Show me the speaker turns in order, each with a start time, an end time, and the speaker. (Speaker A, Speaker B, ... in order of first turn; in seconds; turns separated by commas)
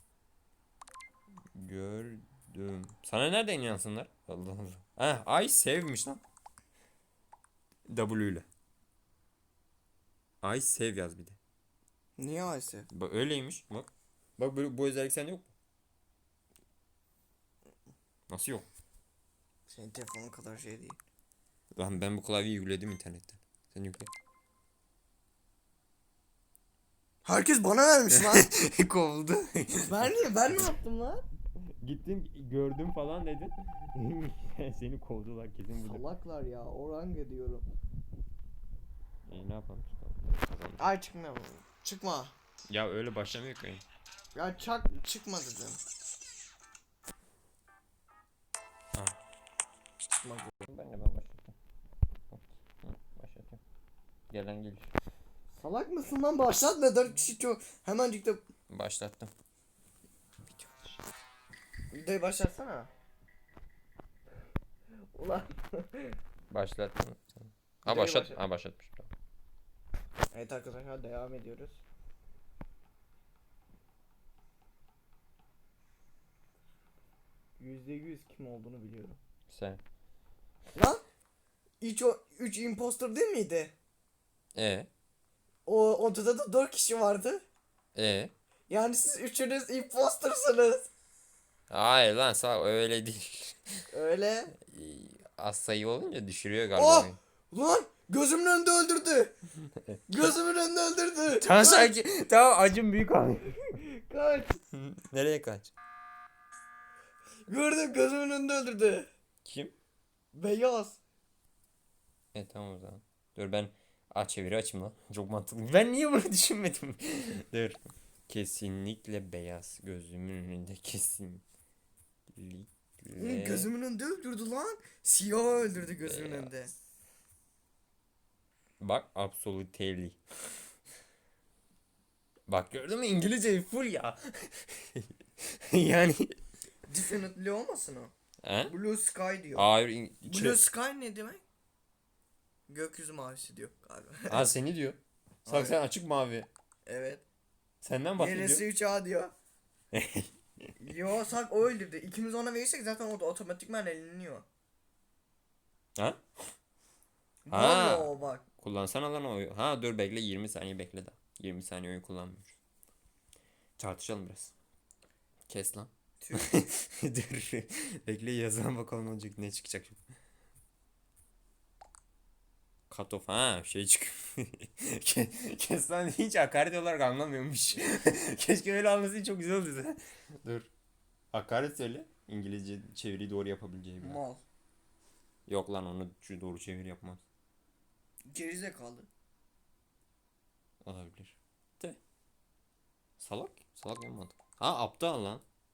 Speaker A: 1.5-6.2, Speaker A: 7.9-8.4, Speaker A: 10.4-11.4, Speaker B: 12.2-12.9, Speaker A: 12.9-15.5, Speaker A: 18.3-18.6, Speaker B: 19.7-21.0, Speaker A: 21.8-24.1, Speaker B: 27.2-28.5, Speaker A: 28.1-30.7, Speaker B: 29.8-31.2, Speaker A: 31.8-36.0, Speaker B: 35.8-37.6, Speaker A: 39.3-40.9, Speaker B: 40.8-42.3, Speaker A: 42.7-43.8, Speaker B: 44.4-45.8, Speaker B: 50.0-50.5, Speaker A: 50.6-51.5, Speaker A: 52.3-53.6, Speaker A: 54.3-54.9, Speaker B: 55.5-58.4, Speaker A: 58.7-59.3, Speaker A: 60.5-61.0, Speaker B: 61.9-62.9, Speaker B: 65.1-66.2, Speaker A: 66.5-69.1, Speaker B: 67.9-68.4, Speaker B: 70.3-71.8, Speaker B: 77.6-79.2, Speaker A: 79.5-79.8, Speaker B: 80.8-81.0, Speaker B: 81.8-83.7, Speaker A: 84.5-84.9, Speaker B: 85.7-87.4, Speaker A: 87.9-88.3, Speaker B: 88.7-90.9, Speaker A: 91.7-93.6, Speaker B: 93.9-94.5, Speaker A: 94.6-97.2, Speaker B: 96.8-99.3, Speaker B: 100.1-101.9, Speaker A: 101.4-103.8, Speaker B: 103.7-104.6, Speaker A: 104.7-105.7, Speaker B: 107.5-109.1, Speaker A: 109.4-109.7, Speaker B: 110.3-111.0, Speaker A: 112.3-121.4, Speaker A: 122.3-123.7, Speaker B: 123.2-126.7, Speaker A: 126.0-126.5, Speaker A: 128.8-130.2, Speaker A: 132.5-136.4, Speaker B: 136.9-138.1, Speaker A: 138.4-138.7, Speaker B: 138.7-139.7, Speaker A: 139.5-140.6, Speaker B: 140.2-141.4, Speaker B: 142.7-144.4, Speaker A: 144.3-146.5, Speaker B: 145.4-145.8, Speaker B: 146.9-147.2, Speaker A: 147.8-148.6, Speaker B: 148.2-149.3, Speaker A: 149.9-150.3, Speaker B: 150.8-154.4, Speaker B: 157.4-158.4, Speaker A: 157.5-162.6, Speaker A: 163.8-164.5, Speaker A: 165.5-170.0, Speaker B: 166.2-166.5, Speaker A: 172.9-180.7, Speaker A: 181.3-184.2, Speaker B: 184.0-184.4, Speaker A: 185.5-187.2, Speaker B: 188.3-189.1, Speaker A: 190.8-192.0, Speaker A: 193.2-195.4